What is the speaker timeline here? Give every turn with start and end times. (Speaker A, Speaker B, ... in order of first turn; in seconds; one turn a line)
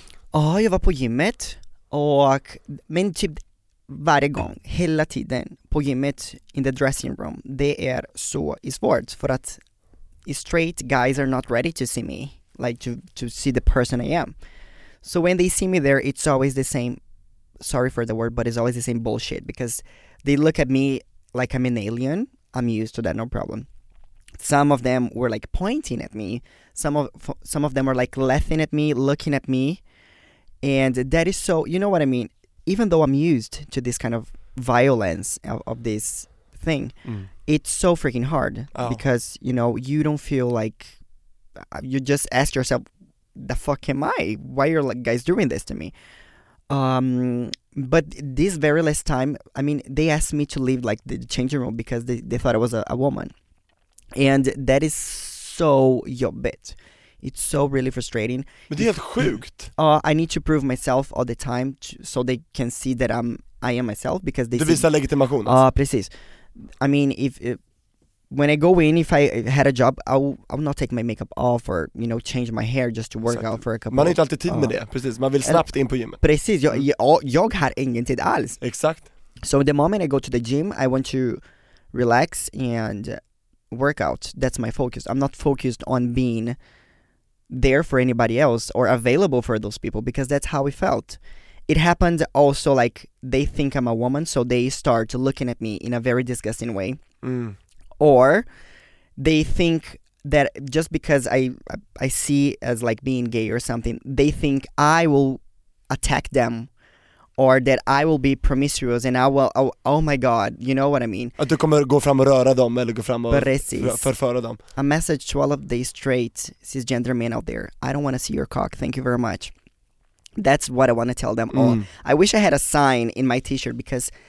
Speaker A: 0.3-9.6
Speaker A: 10.3-14.3
Speaker A: 15.0-17.0
Speaker A: 17.6-23.7
Speaker A: 24.4-29.8
Speaker A: 30.6-37.0
Speaker A: 37.5-41.0
Speaker B: 38.8-39.0
Speaker A: 41.6-45.9
Speaker A: 46.7-53.3
Speaker A: 54.1-64.9
Speaker B: 58.7-59.7
Speaker B: 64.5-65.6
Speaker A: 65.5-66.1
Speaker A: 66.7-67.6
Speaker A: 68.3-74.8
Speaker B: 73.3-76.2
Speaker A: 75.4-78.6
Speaker B: 78.6-79.1
Speaker A: 79.4-81.4
Speaker A: 81.9-83.2
Speaker A: 83.7-86.6
Speaker A: 87.5-97.0
Speaker B: 97.2-97.6
Speaker A: 98.0-98.5
Speaker A: 99.2-106.7
Speaker A: 107.4-111.4
Speaker B: 111.4-114.6
Speaker A: 113.3-114.1
Speaker A: 114.8-119.5
Speaker A: 120.4-124.1
Speaker B: 121.5-121.9